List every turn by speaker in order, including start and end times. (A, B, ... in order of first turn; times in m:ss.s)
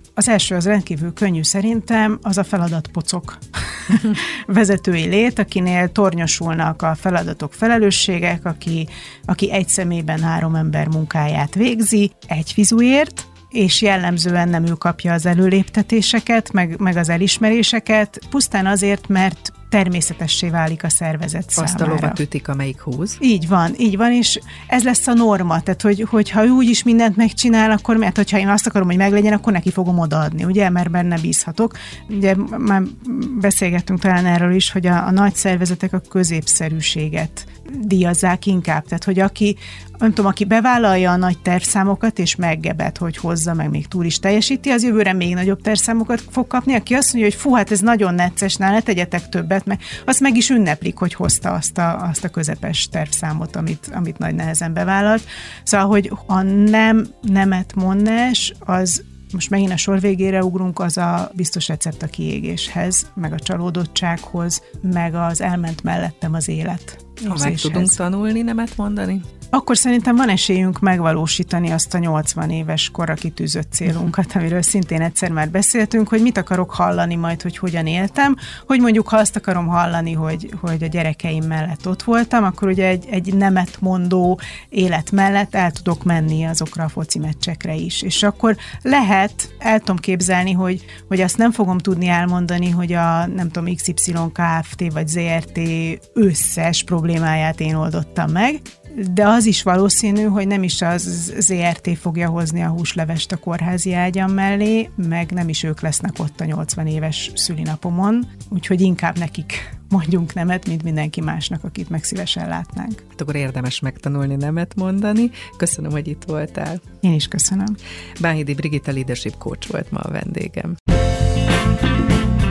0:00.2-0:22.2 A
0:21.6-0:23.2 B
0:23.2-1:08.0 A
1:07.3-1:09.2 B
1:09.5-1:53.0 A
1:53.2-1:56.8 B
1:57.0-1:57.8 A
1:58.2-2:00.8 B